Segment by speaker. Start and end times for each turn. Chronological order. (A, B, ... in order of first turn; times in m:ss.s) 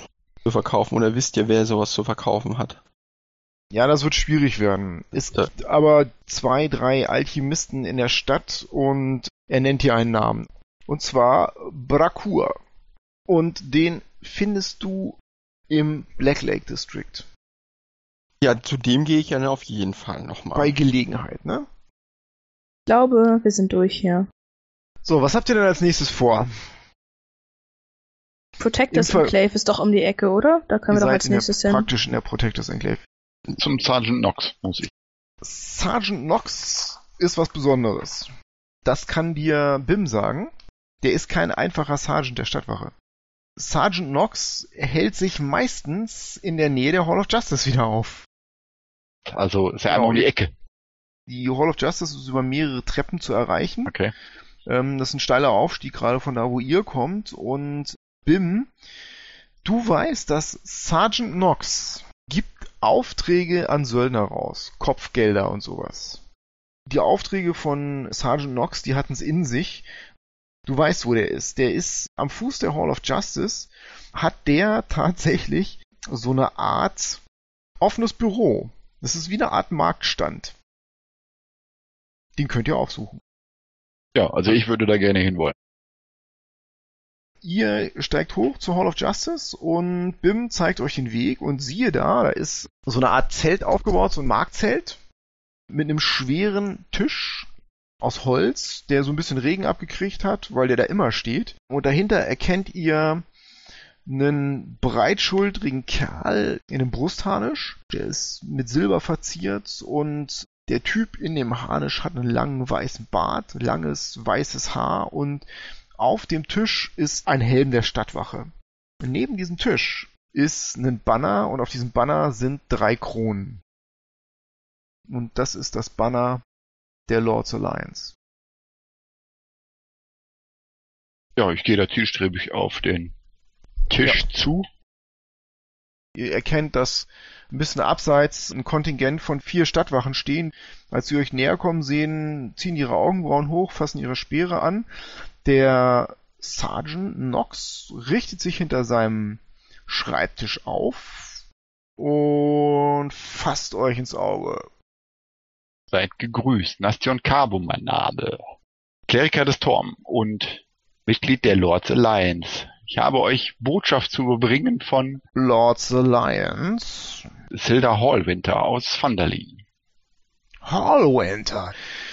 0:00.4-0:02.8 A
0:03.7-0:12.6 B
0:13.3-0:15.2 B
0:15.7-0:17.3 B
0:18.4-0:20.7 A
0:20.5-0:21.7 B
0:22.9-0:24.3 C
0:25.0-0:26.5 B
0:28.6-0:31.8 C
0:28.9-0:29.3 B
0:30.9-0:33.0 B
0:33.5-0:34.9 D
0:35.4-0:38.3 B
0:38.8-0:42.9 B
0:43.6-0:48.3 B
0:49.3-0:50.5 D
0:49.9-0:50.3 B
0:51.3-0:53.9 B
0:53.8-0:54.1 D
0:54.6-0:58.7 B
0:59.6-1:06.2 B
1:06.9-1:09.9 B
1:10.7-1:17.2 B
1:17.8-1:20.6 B
1:22.4-1:23.2 B
1:24.1-1:25.5 D
1:27.4-1:35.0 B
1:35.7-1:37.5 B
1:38.0-1:43.2 B
1:44.0-1:55.4 B
1:56.0-2:03.6 B
2:05.1-2:06.4 B
2:07.1-2:08.1 B
2:11.4-2:13.1 D
2:13.9-2:14.6 D
2:16.2-2:24.9 B
2:25.4-2:31.4 B
2:32.0-2:34.7 B
2:35.9-2:38.4 D
2:39.1-2:45.2 D
2:45.3-2:47.3 B
2:47.5-2:49.6 D
2:50.6-2:51.7 B